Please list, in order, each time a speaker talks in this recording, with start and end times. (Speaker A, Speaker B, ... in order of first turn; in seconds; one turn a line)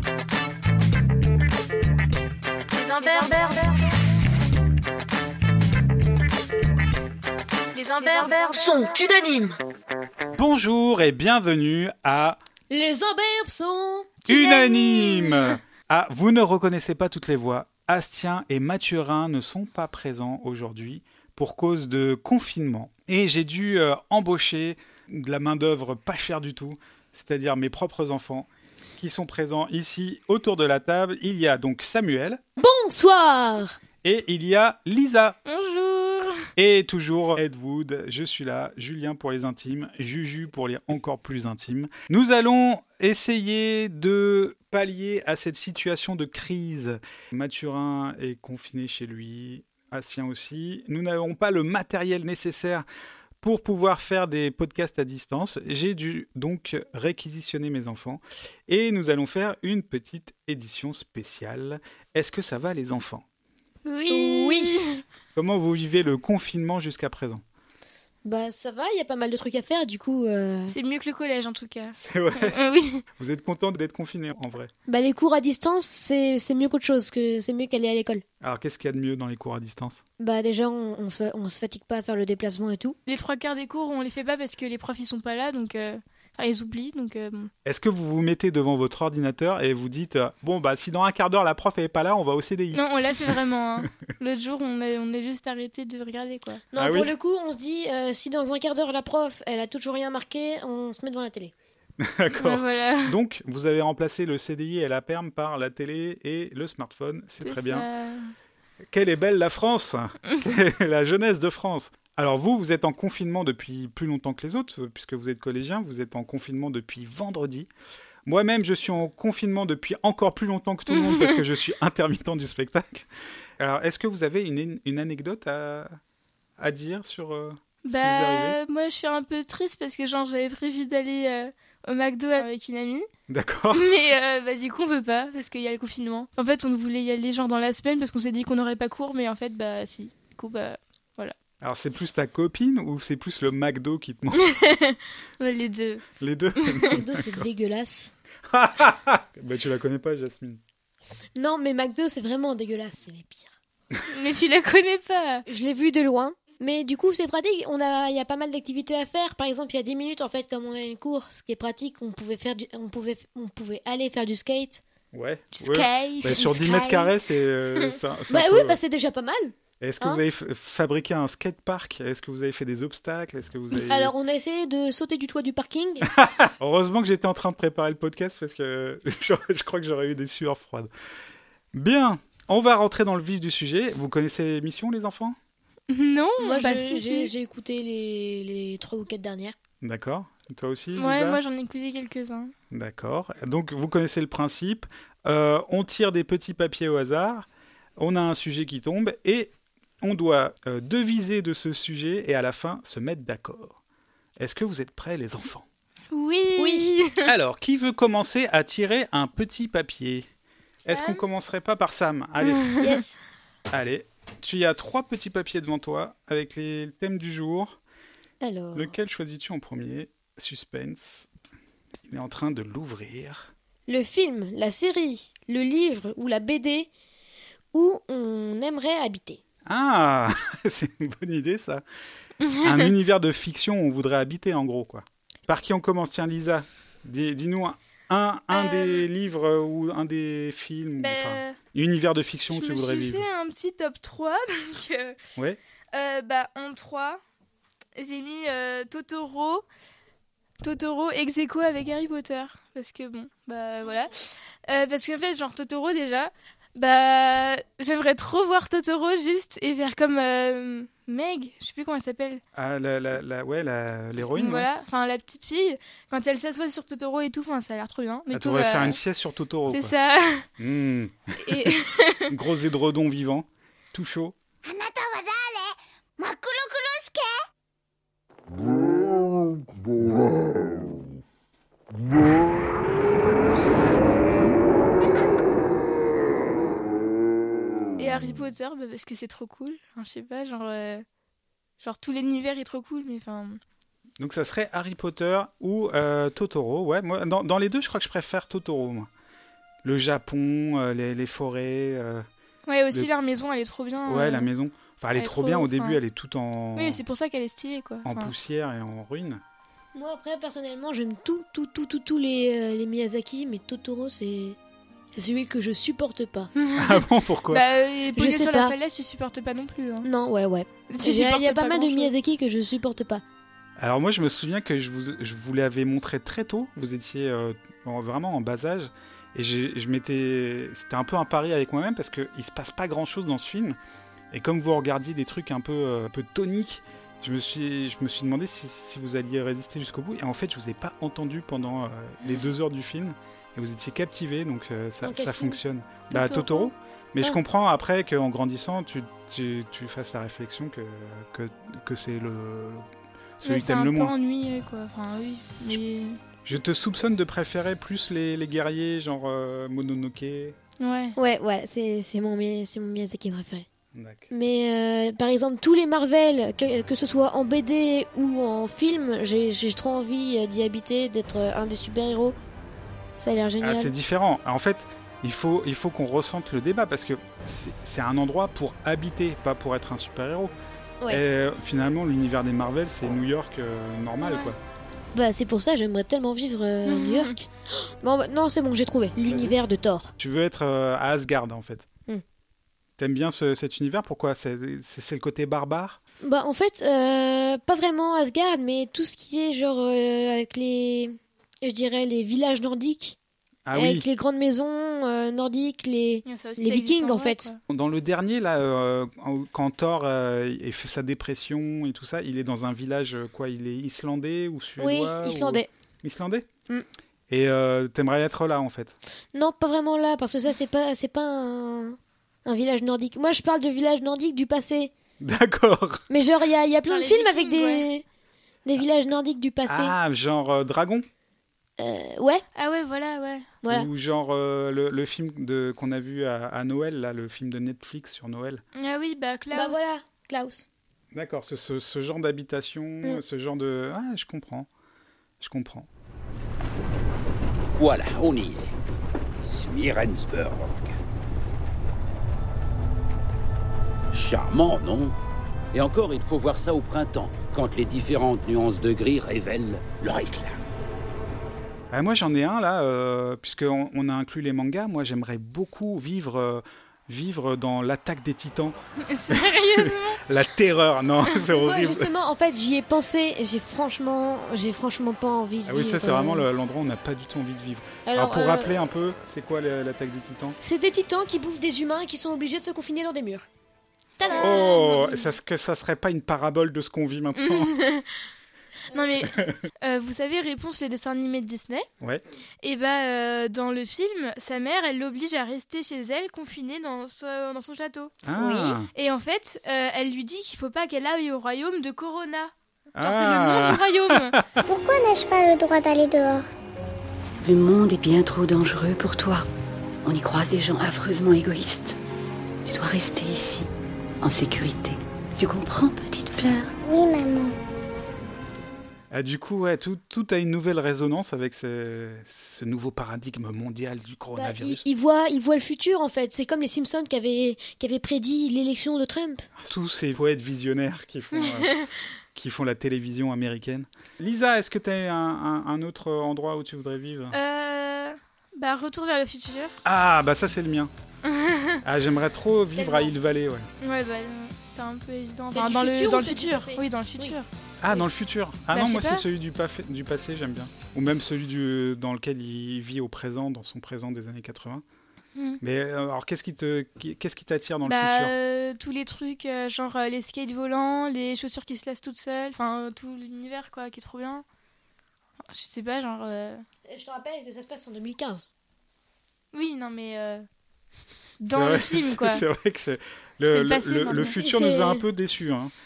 Speaker A: 2.7-3.6
Speaker A: 7.7-8.9
Speaker B: 8.0-9.6
Speaker C: 10.3-12.4
Speaker B: 12.7-14.2
Speaker A: 14.2-15.6
Speaker C: 14.3-32.4
Speaker B: 32.6-33.8
Speaker C: 34.0-35.4
Speaker A: 35.5-36.4
Speaker C: 36.5-52.9
Speaker C: 53.4-63.2
Speaker A: 63.8-65.0
Speaker B: 64.1-65.0
Speaker C: 65.3-67.4
Speaker B: 68.2-70.7
Speaker A: 70.7-73.0
Speaker C: 72.0-72.6
Speaker C: 73.2-74.7
Speaker B: 74.9-78.2
Speaker C: 78.4-80.0
Speaker B: 80.2-83.0
Speaker A: 83.1-87.5
Speaker C: 87.6-93.3
Speaker A: 92.7-96.6
Speaker B: 96.7-101.5
Speaker C: 96.8-97.1
Speaker C: 102.0-107.8
Speaker A: 102.3-103.2
Speaker A: 107.4-108.3
Speaker C: 108.9-117.7
Speaker C: 118.2-123.1
Speaker A: 120.9-121.4
Speaker C: 123.6-125.9
Speaker C: 126.6-128.6
Speaker A: 127.8-133.1
Speaker C: 133.3-133.9
Speaker A: 133.7-141.3
Speaker C: 141.6-144.5
Speaker A: 144.4-146.1
Speaker C: 146.2-147.4
Speaker A: 146.6-146.9
Speaker B: 146.9-148.1
Speaker C: 148.5-150.6
Speaker B: 151.3-153.5
Speaker A: 154.1-155.4
Speaker B: 155.5-164.8
Speaker C: 165.1-168.8
Speaker A: 165.5-167.1
Speaker B: 168.3-170.2
Speaker C: 169.8-174.1
Speaker B: 173.7-176.1
Speaker C: 176.1-180.9
Speaker C: 181.7-185.4
Speaker A: 185.9-187.3
Speaker B: 186.4-189.6
Speaker C: 189.8-191.4
Speaker A: 190.9-192.5
Speaker C: 192.7-197.4
Speaker C: 198.0-203.8
Speaker C: 204.4-205.7
Speaker A: 206.1-207.3
Speaker B: 206.6-206.9
Speaker C: 207.2-210.3
Speaker C: 210.8-212.8
Speaker A: 210.9-211.2
Speaker A: 212.4-212.9
Speaker B: 212.8-213.2
Speaker C: 213.7-217.8
Speaker B: 218.4-218.9
Speaker C: 218.7-221.3
Speaker C: 222.1-223.5
Speaker B: 223.9-226.9
Speaker B: 227.7-229.4
Speaker C: 229.6-231.8
Speaker A: 232.4-232.9
Speaker C: 232.6-243.3
Speaker A: 238.5-239.1
Speaker A: 241.0-241.6
Speaker A: 242.5-245.2
Speaker A: 245.9-247.2
Speaker A: 247.9-249.6
Speaker A: 250.6-262.4
Speaker C: 262.5-264.7
Speaker A: 264.3-269.0
Speaker C: 268.3-269.9
Speaker A: 269.7-270.5
Speaker C: 270.6-274.4
Speaker A: 271.4-272.3
Speaker D: 274.6-277.4
Speaker A: 288.0-291.0
Speaker A: 291.8-293.6
Speaker C: 294.2-299.1
Speaker C: 299.8-302.2
Speaker A: 302.7-304.5
Speaker C: 304.1-307.0
Speaker A: 305.2-306.0
Speaker A: 306.8-308.3
Speaker C: 308.0-309.4
Speaker B: 309.9-314.6
Speaker B: 315.1-316.5
Speaker A: 316.6-320.1
Speaker C: 316.7-317.6
Speaker B: 318.1-318.7
Speaker B: 320.0-323.2
Speaker A: 320.9-322.1
Speaker C: 323.8-333.8
Speaker C: 334.3-352.8
Speaker B: 345.0-345.6
Speaker A: 346.1-346.7
Speaker C: 353.4-354.1
Speaker A: 353.4-356.2
Speaker C: 356.4-360.6
Speaker A: 360.8-361.1
Speaker B: 361.1-363.6
Speaker C: 363.9-364.3
Speaker B: 364.3-372.4
Speaker B: 373.2-373.9
Speaker C: 373.6-380.5
Speaker C: 381.1-384.6
Speaker A: 384.2-384.5
Speaker B: 385.1-390.1
Speaker A: 386.9-387.3
Speaker C: 389.2-389.6
Speaker C: 390.2-391.9
Speaker C: 393.0-396.0
Speaker B: 396.2-403.1
Speaker C: 403.6-404.1
Speaker B: 403.7-407.5
Speaker A: 406.2-407.6
Speaker C: 407.7-416.5
Speaker B: 414.8-415.7
Speaker C: 417.3-419.0
Speaker B: 419.3-424.9
Speaker C: 425.2-426.0
Speaker B: 426.1-428.0
Speaker A: 426.8-427.9
Speaker B: 428.6-429.9
Speaker C: 429.7-431.1
Speaker B: 431.8-432.4
Speaker A: 432.6-433.5
Speaker B: 433.6-433.9
Speaker C: 433.7-438.6
Speaker A: 438.8-439.9
Speaker B: 439.5-440.6
Speaker C: 441.1-444.7
Speaker C: 445.4-445.9
Speaker E: 447.8-448.7
Speaker E: 449.4-451.0
Speaker E: 454.1-455.1
Speaker E: 455.7-460.6
Speaker C: 461.9-468.8
Speaker A: 469.0-470.2
Speaker C: 469.3-472.1
Speaker B: 471.5-476.4
Speaker C: 475.6-480.6
Speaker B: 478.1-478.7
Speaker B: 480.6-483.5
Speaker A: 484.2-485.3
Speaker B: 484.2-484.9
Speaker C: 484.3-487.7
Speaker A: 487.4-488.3
Speaker A: 488.9-491.9
Speaker C: 489.2-489.6
Speaker A: 492.6-504.4
Speaker C: 498.2-498.9
Speaker C: 502.9-504.4
Speaker D: 504.6-506.5
Speaker F: 507.4-509.4
Speaker F: 510.0-512.0
Speaker F: 512.6-513.7
Speaker F: 514.2-516.7
Speaker D: 516.8-517.5
Speaker C: 519.1-524.8
Speaker B: 524.4-529.5
Speaker C: 529.6-537.4
Speaker A: 531.4-531.9
Speaker A: 537.3-539.8
Speaker C: 539.8-540.9
Speaker A: 541.2-541.8
Speaker C: 541.8-543.7
Speaker B: 542.8-543.1
Speaker A: 543.8-547.5
Speaker B: 545.5-547.3
Speaker C: 547.8-554.8
Speaker A: 548.7-549.2
Speaker C: 555.6-558.3
Speaker A: 557.8-564.4
Speaker A: 565.5-566.6
Speaker B: 566.9-568.5
Speaker A: 569.5-570.5
Speaker A: 571.4-572.4
Speaker C: 571.5-575.7
Speaker A: 573.5-574.4
Speaker B: 574.3-575.0